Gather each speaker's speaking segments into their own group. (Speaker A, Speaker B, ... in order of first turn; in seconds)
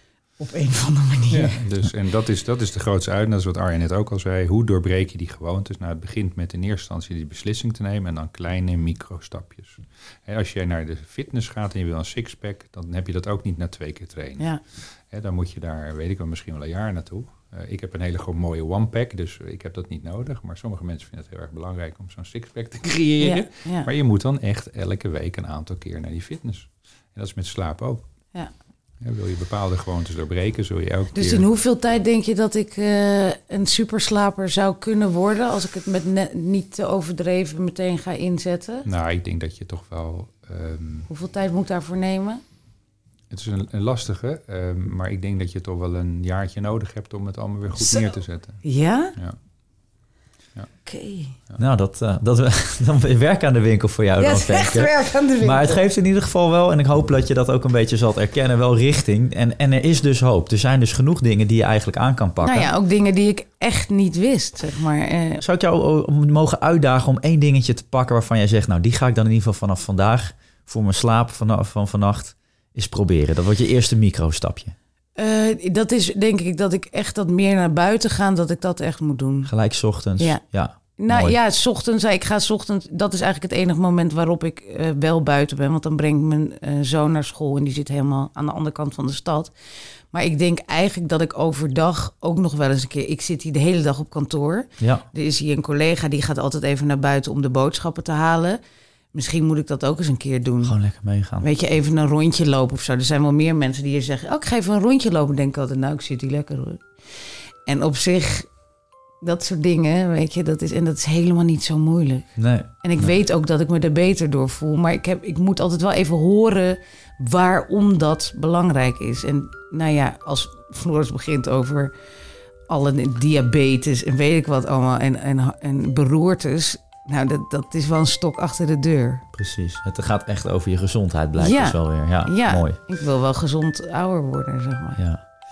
Speaker A: 0.4-1.6, 23.2-23.9, 31.1-38.9, 41.1-42.4, 47.8-49.1, 50.9-51.3, 54.2-55.8, 62.4-65.4, 75.2-79.5, 81.0-89.5, 90.1-98.6, 99.1-100.8, 101.4-106.8, 107.6-108.5, 109.2-121.9, 122.7-129.2, 131.3-135.0
Speaker B: 1.3-14.5, 15.1-28.0, 29.0-31.4, 38.9-41.1, 43.3-48.6
Speaker C: 51.6-62.7, 65.4-74.7, 79.5-81.3, 94.8-95.0, 100.6-101.5, 112.4-112.7, 129.3-132.8